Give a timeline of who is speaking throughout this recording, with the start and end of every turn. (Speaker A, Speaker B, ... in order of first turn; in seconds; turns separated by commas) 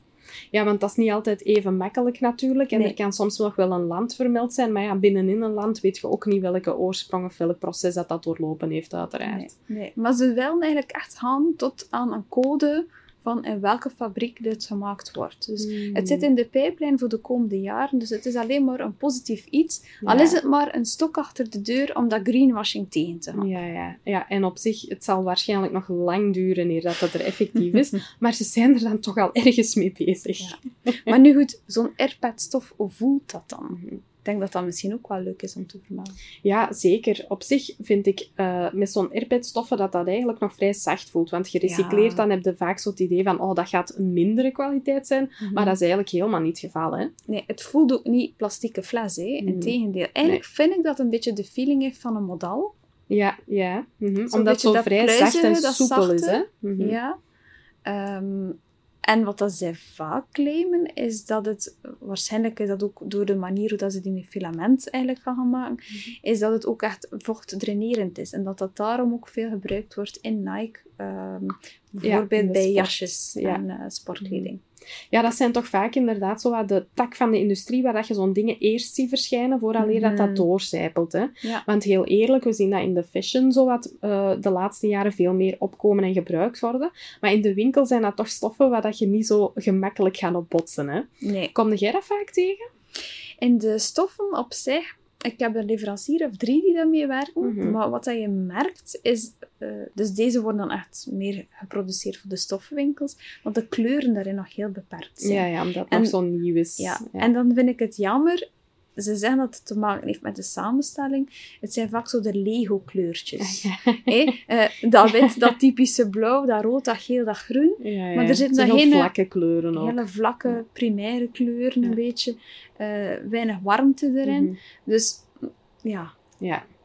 Speaker A: 0.5-9.5, Speaker B: 9.2-23.5, Speaker A: 15.6-16.2, Speaker A: 20.0-20.4, Speaker A: 23.4-31.1, Speaker B: 30.4-36.1, Speaker A: 33.7-34.0, Speaker A: 36.4-47.1, Speaker B: 41.6-42.2, Speaker B: 45.4-45.8, Speaker B: 47.3-52.7, Speaker A: 49.4-49.7, Speaker A: 53.1-57.0, Speaker B: 54.3-57.2, Speaker B: 57.8-74.6, Speaker A: 72.0-73.6, Speaker A: 74.2-74.5, Speaker A: 75.1-92.6, Speaker B: 79.8-80.5, Speaker B: 91.2-91.5, Speaker B: 93.4-106.1, Speaker A: 97.4-97.8, Speaker A: 105.2-107.3, Speaker B: 106.8-108.4, Speaker B: 109.0-119.1, Speaker A: 113.4-114.3, Speaker A: 117.8-120.5, Speaker B: 119.7-126.1, Speaker A: 124.2-124.5